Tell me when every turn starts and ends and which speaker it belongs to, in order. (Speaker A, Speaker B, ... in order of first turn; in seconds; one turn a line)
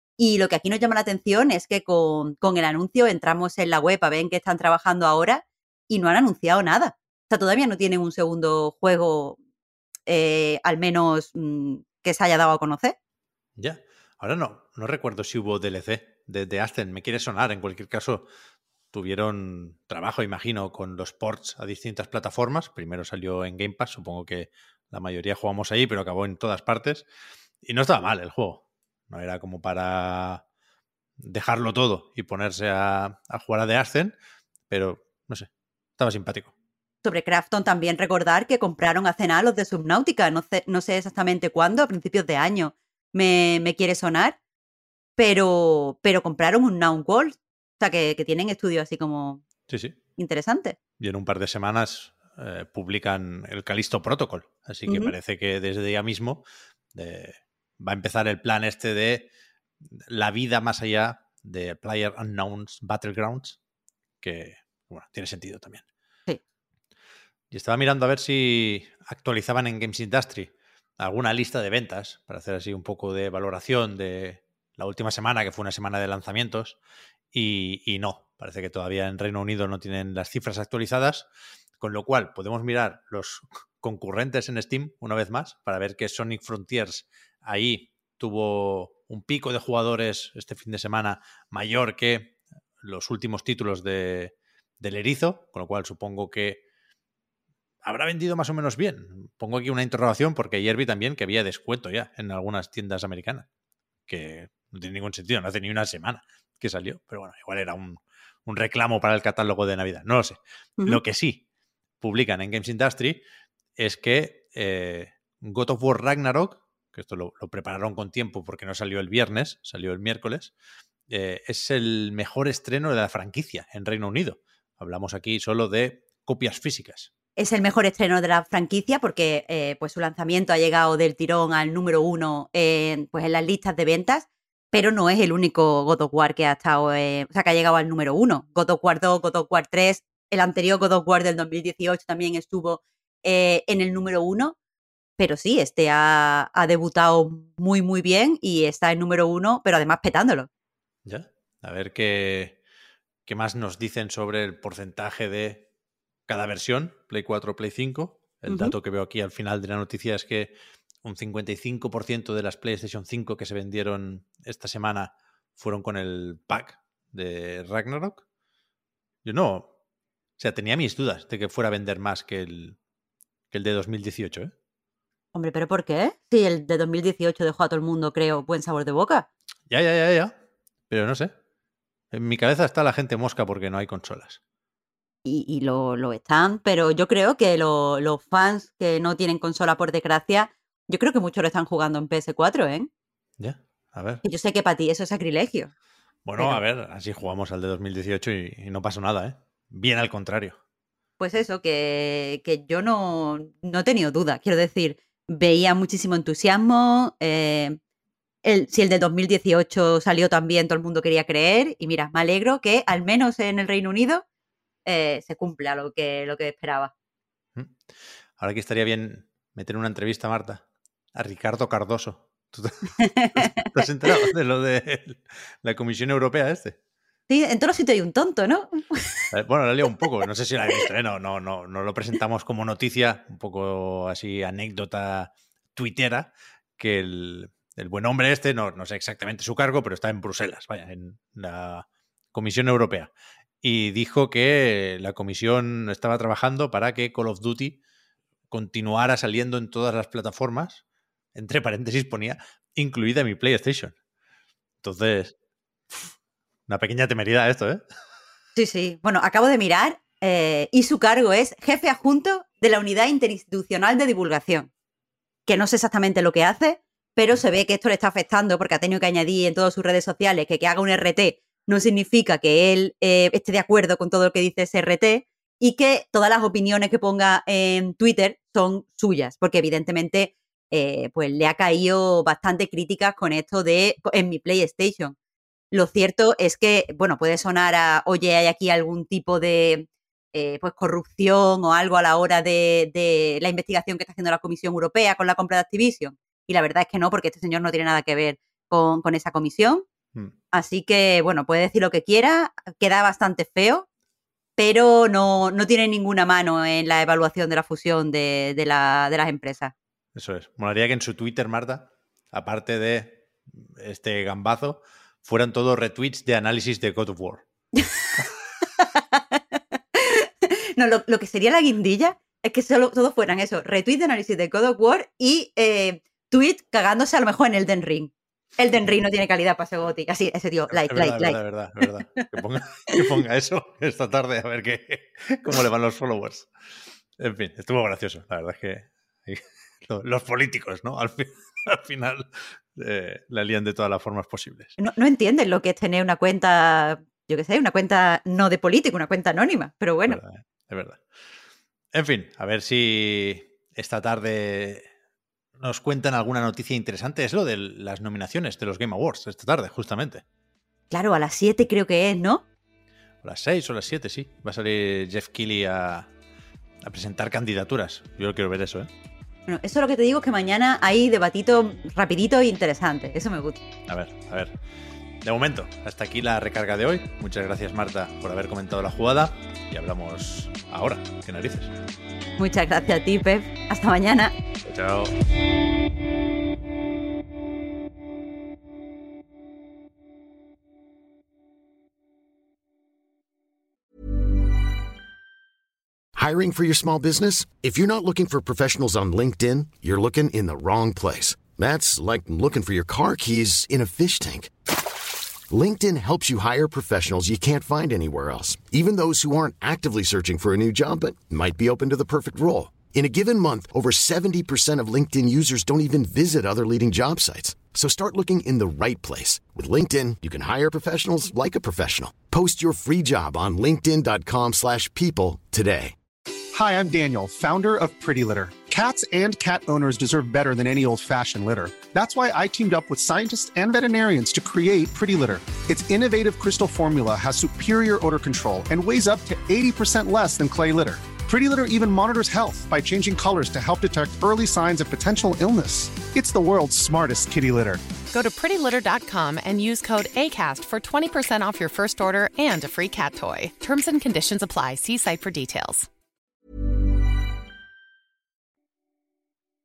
Speaker A: 0.2-9.4
Speaker A: 10.1-13.0
Speaker B: 13.6-18.3
Speaker B: 18.9-27.1
Speaker B: 27.6-30.4
Speaker B: 31.2-34.1
Speaker B: 34.7-36.5
Speaker A: 37.0-44.4
Speaker A: 45.2-49.4
Speaker B: 49.7-50.0
Speaker A: 50.2-50.8
Speaker B: 51.0-59.3
Speaker A: 54.9-55.1
Speaker B: 60.1-63.6
Speaker B: 64.2-65.8
Speaker B: 67.5-76.8
Speaker B: 77.3-81.3
Speaker B: 81.8-96.6
Speaker B: 97.8-103.5
Speaker B: 104.1-111.4
Speaker B: 112.0-113.2
Speaker B: 113.8-120.5
Speaker B: 121.1-127.1
Speaker A: 127.4-144.6
Speaker A: 145.2-150.5
Speaker B: 151.1-152.6
Speaker B: 153.3-155.7
Speaker B: 156.3-168.2
Speaker A: 158.5-158.8
Speaker B: 169.2-169.7
Speaker B: 170.4-172.8
Speaker B: 173.5-174.5
Speaker A: 175.3-179.3
Speaker B: 179.7-180.3
Speaker B: 180.9-181.3
Speaker B: 182.1-184.4
Speaker A: 185.2-192.9
Speaker B: 193.4-194.2
Speaker A: 194.2-195.7
Speaker B: 196.2-200.6
Speaker A: 201.2-207.8
Speaker A: 208.4-214.2
Speaker A: 214.8-216.9
Speaker B: 218.4-220.6
Speaker B: 221.2-226.8
Speaker A: 223.0-223.6
Speaker A: 227.3-229.3
Speaker B: 229.3-243.1
Speaker B: 243.6-247.8
Speaker B: 248.5-250.8
Speaker B: 251.3-253.9
Speaker B: 254.8-255.3
Speaker B: 256.7-257.8
Speaker A: 258.6-264.7
Speaker A: 265.5-285.2
Speaker A: 285.7-299.9
Speaker A: 300.5-303.9
Speaker A: 304.6-309.7
Speaker B: 310.1-317.4
Speaker A: 318.8-319.4
Speaker A: 319.9-332.3
Speaker B: 330.7-336.5
Speaker B: 337.2-344.8
Speaker A: 344.8-350.2
Speaker B: 350.1-351.0
Speaker B: 351.9-354.9
Speaker B: 355.6-360.2
Speaker A: 360.9-362.4
Speaker B: 363.2-366.1
Speaker B: 366.8-368.9
Speaker A: 369.5-373.6
Speaker B: 373.9-374.5
Speaker B: 375.2-381.7
Speaker A: 382.4-384.4
Speaker B: 384.6-385.1
Speaker C: 396.1-404.5
Speaker C: 405.5-425.9
Speaker D: 426.5-447.8
Speaker E: 448.1-455.9